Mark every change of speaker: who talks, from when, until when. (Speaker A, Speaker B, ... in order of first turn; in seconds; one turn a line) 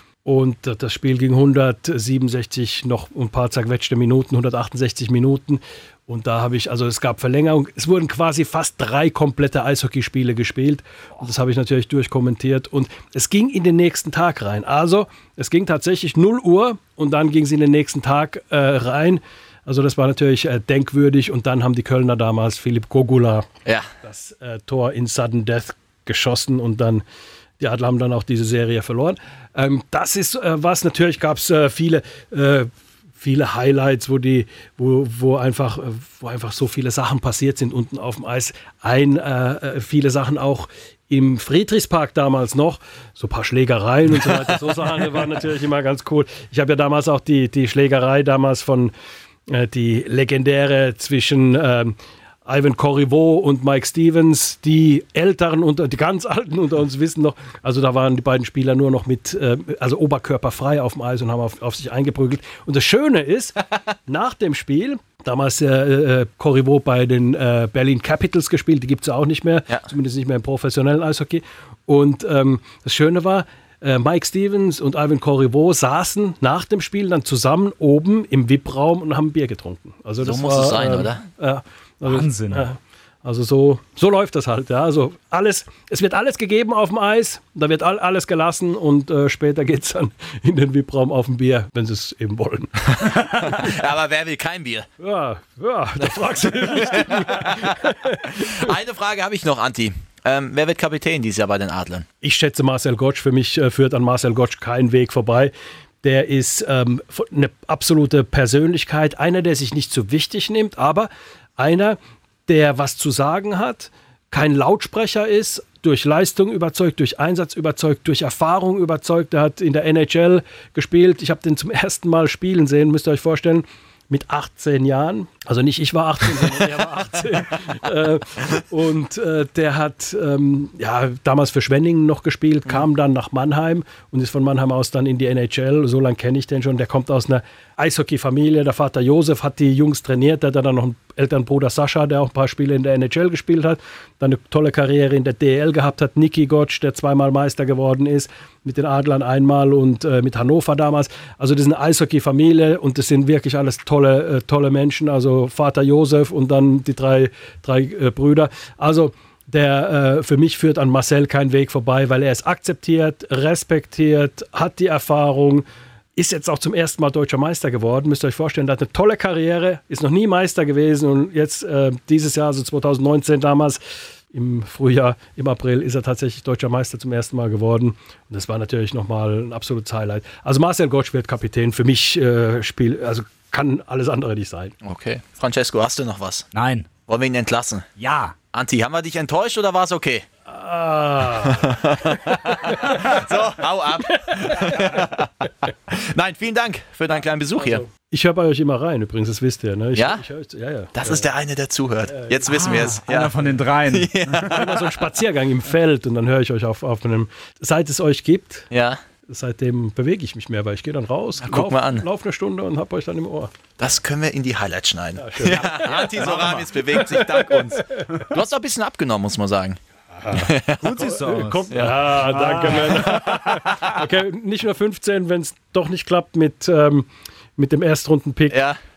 Speaker A: 0.2-23.5
Speaker A: 24.0-27.0
Speaker A: 27.6-48.9
Speaker A: 49.5-92.9
Speaker B: 80.2-81.2
Speaker C: 82.0-82.7
Speaker B: 93.0-94.9
Speaker A: 95.0-98.7
Speaker B: 96.0-97.8
Speaker B: 98.4-102.0
Speaker A: 102.2-165.6
Speaker A: 166.2-173.8
Speaker A: 174.3-184.7
Speaker B: 184.8-186.5
Speaker C: 186.5-186.9
Speaker B: 187.1-187.9
Speaker C: 188.0-188.3
Speaker B: 188.5-190.2
Speaker A: 190.5-193.3
Speaker B: 191.3-195.3
Speaker A: 194.1-195.2
Speaker B: 195.9-197.8
Speaker A: 197.6-201.3
Speaker B: 199.9-200.2
Speaker B: 200.9-204.9
Speaker A: 202.1-202.7
Speaker C: 202.5-204.5
Speaker A: 204.5-208.7
Speaker B: 208.7-209.0
Speaker A: 209.3-213.5
Speaker B: 211.4-212.1
Speaker B: 213.8-219.8
Speaker A: 215.2-218.0
Speaker C: 215.8-216.7
Speaker A: 220.2-228.6
Speaker B: 220.3-220.9
Speaker C: 220.8-221.7
Speaker B: 221.7-223.8
Speaker C: 222.2-223.5
Speaker B: 228.5-228.8